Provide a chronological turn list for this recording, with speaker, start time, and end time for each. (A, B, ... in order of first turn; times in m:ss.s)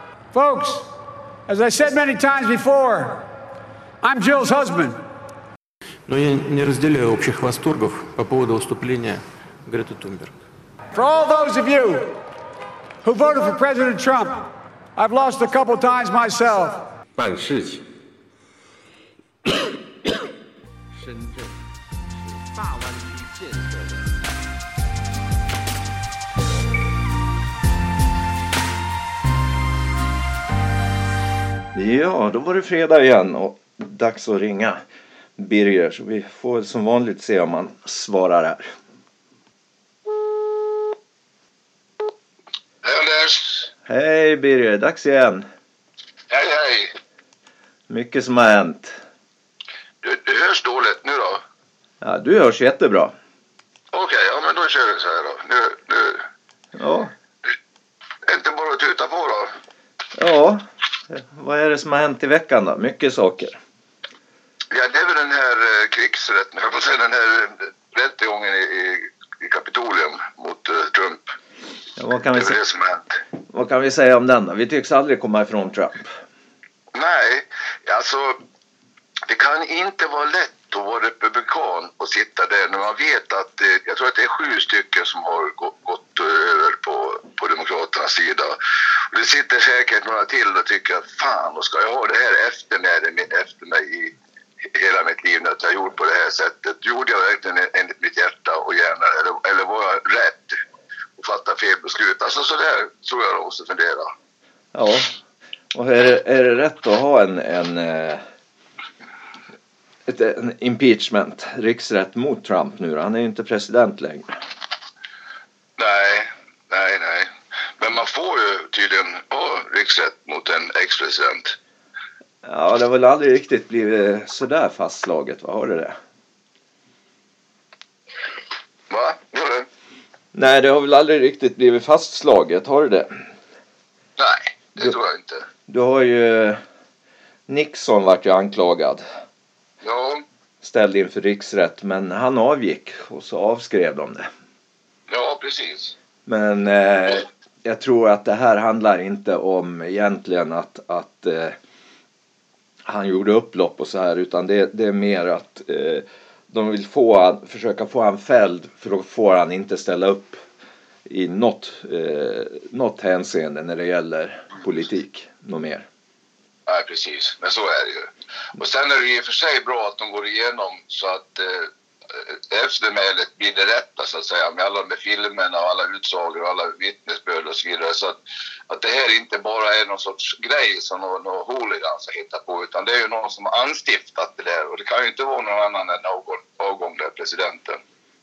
0:00.3-0:00.9 A
0:01.4-0:03.2 A
0:04.0-0:05.0 A
0:06.1-0:10.3 B
0:10.9-0:12.2 A
0:13.0-0:16.9 A
0:17.2-0:17.8 C
0:21.0-0:21.5 C
0:22.5-0:24.1 C
0:31.7-0:34.8 D
0:35.4-0:38.6 D
0:42.8-0:43.7 E
0:43.9-0:45.4 D
0:46.3-0:46.9 E
0:47.9-0:49.0 D
0:50.0-0:51.4 E
0:52.0-0:53.1 D
0:53.9-0:56.3 E
0:56.8-0:57.1 D
0:58.2-0:59.5 E
1:00.2-1:03.6 D
1:04.7-1:11.3 E
1:12.0-1:12.6 D
1:12.3-1:13.2 E
1:13.5-1:16.1 D
1:16.9-1:18.4 E
1:19.3-1:28.6 E
1:29.1-1:34.1 E
1:34.7-1:40.6 E
1:41.2-1:44.1 E
1:44.7-1:45.1 D
1:45.7-1:48.2 D
1:50.1-1:54.4 D
1:55.8-2:01.6 E
2:02.4-2:05.9 D
2:08.9-2:09.7 E
2:10.3-2:13.3 D
2:14.2-2:15.5 E
2:15.7-2:16.6 D
2:17.5-2:19.0 D
2:19.8-2:20.2 E
2:20.6-2:24.3 D
2:25.1-2:26.0 E
2:26.2-2:31.6 D
2:32.9-2:40.4 D
2:41.1-2:45.8 D
2:46.7-2:58.2 E
2:58.7-3:07.8 E